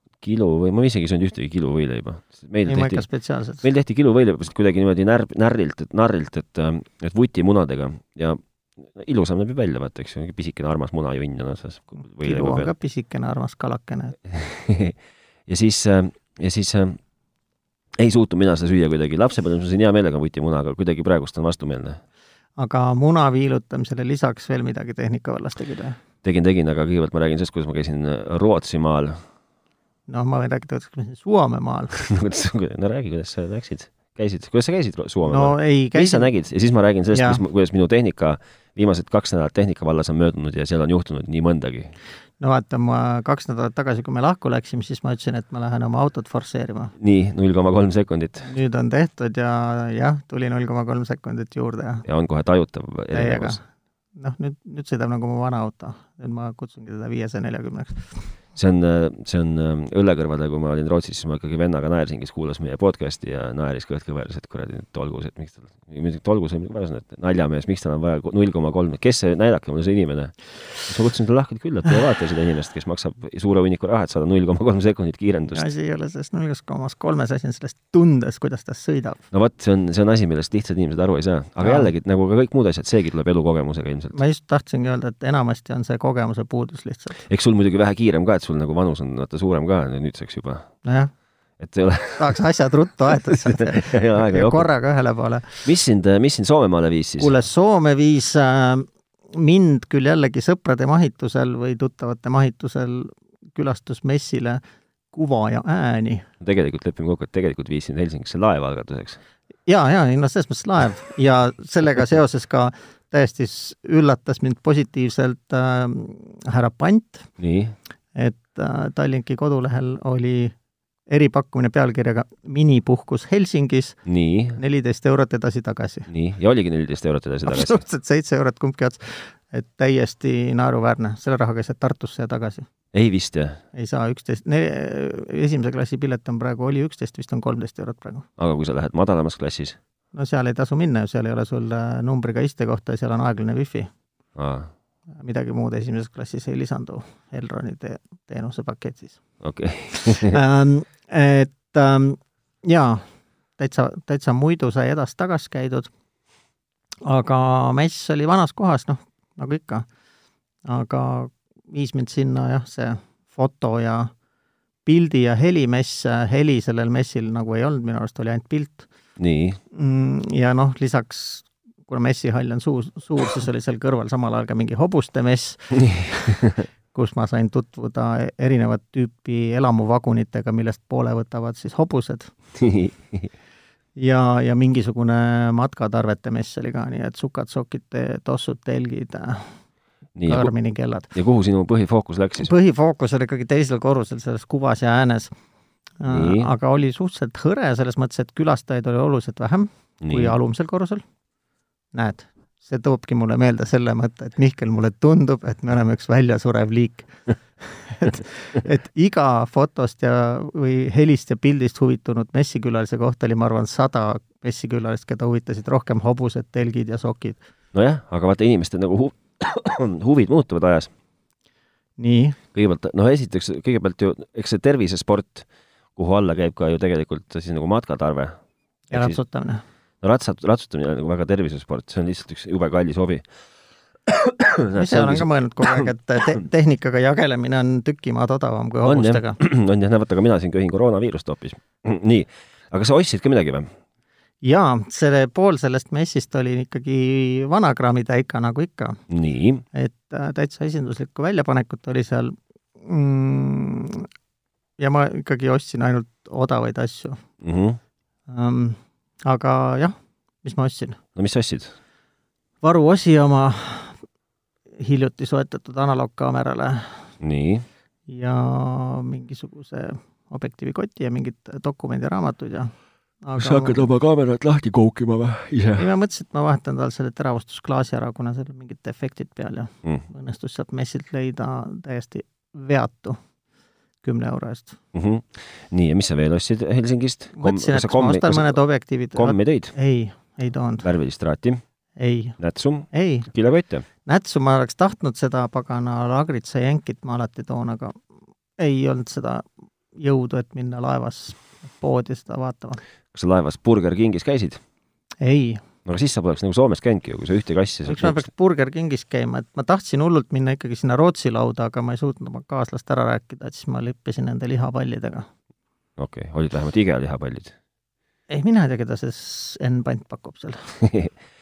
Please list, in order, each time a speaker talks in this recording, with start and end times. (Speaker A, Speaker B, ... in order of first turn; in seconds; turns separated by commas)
Speaker A: 0.2-3.1, Speaker B: 2.7-3.6, Speaker A: 3.6-12.7, Speaker B: 12.2-14.2, Speaker A: 14.3-15.0, Speaker A: 15.5-17.0, Speaker A: 18.0-22.0, Speaker B: 22.6-26.0, Speaker A: 26.2-29.2, Speaker B: 30.1-32.0, Speaker A: 31.9-41.9, Speaker B: 35.3-36.3, Speaker B: 37.1-37.4, Speaker B: 42.4-46.9, Speaker A: 47.0-48.5, Speaker B: 48.4-52.1, Speaker A: 52.1-53.6, Speaker B: 53.1-53.6, Speaker B: 54.2-58.3, Speaker A: 58.5-75.7, Speaker B: 75.5-79.2, Speaker A: 79.3-84.2, Speaker B: 81.6-81.9, Speaker B: 84.1-87.2, Speaker A: 87.3-90.7, Speaker B: 90.8-91.1, Speaker A: 91.6-92.4, Speaker B: 92.2-95.7, Speaker A: 93.1-94.7, Speaker A: 95.6-97.3, Speaker B: 97.2-104.6, Speaker B: 105.1-106.3, Speaker A: 106.4-109.2, Speaker B: 109.7-117.3, Speaker A: 117.4-117.8, Speaker B: 118.2-120.5, Speaker B: 121.1-124.0, Speaker A: 124.1-124.6, Speaker B: 124.6-126.1, Speaker A: 126.1-127.8, Speaker B: 127.5-132.7, Speaker A: 132.9-133.6, Speaker B: 133.8-138.2, Speaker A: 138.4-139.8, Speaker B: 140.2-143.9, Speaker A: 144.4-144.7, Speaker B: 145.2-149.2, Speaker A: 149.4-150.4, Speaker B: 149.9-153.0, Speaker B: 153.6-155.9, Speaker B: 157.1-159.9, Speaker B: 160.7-164.1, Speaker B: 164.9-168.9, Speaker A: 169.2-169.6, Speaker B: 169.7-182.3, Speaker A: 175.8-176.7, Speaker A: 182.6-183.3, Speaker B: 184.0-189.5, Speaker A: 190.2-190.5, Speaker B: 190.3-191.1, Speaker A: 191.1-192.5, Speaker B: 192.4-195.3, Speaker B: 196.0-201.0, Speaker A: 196.1-196.5, Speaker A: 200.0-200.4, Speaker B: 201.9-217.4, Speaker A: 217.7-220.9, Speaker B: 222.0-222.4, Speaker A: 222.5-228.3, Speaker A: 228.9-229.2, Speaker B: 228.9-229.6, Speaker A: 230.0-233.2, Speaker A: 234.1-236.4, Speaker B: 234.7-239.4, Speaker A: 238.8-243.7, Speaker B: 244.4-249.0, Speaker A: 249.1-249.6, Speaker B: 249.7-254.1, Speaker B: 254.8-257.2, Speaker A: 257.4-257.8, Speaker B: 258.3-261.0, Speaker A: 261.2-261.7, Speaker B: 262.6-264.0, Speaker B: 264.8-267.1, Speaker A: 267.2-267.7, Speaker B: 268.1-273.9, Speaker A: 273.4-275.9, Speaker B: 275.8-283.2, Speaker B: 284.0-284.8, Speaker A: 284.9-288.6, Speaker B: 287.4-290.9, Speaker A: 289.2-289.7, Speaker A: 290.8-291.6, Speaker B: 292.0-292.4, Speaker A: 292.4-293.9, Speaker B: 292.9-293.3, Speaker B: 294.1-298.0, Speaker B: 298.6-302.8, Speaker A: 303.1-304.6, Speaker B: 305.2-305.6, Speaker A: 305.9-308.3, Speaker B: 307.9-315.3, Speaker A: 316.0-317.5, Speaker B: 318.3-320.7, Speaker A: 320.8-321.1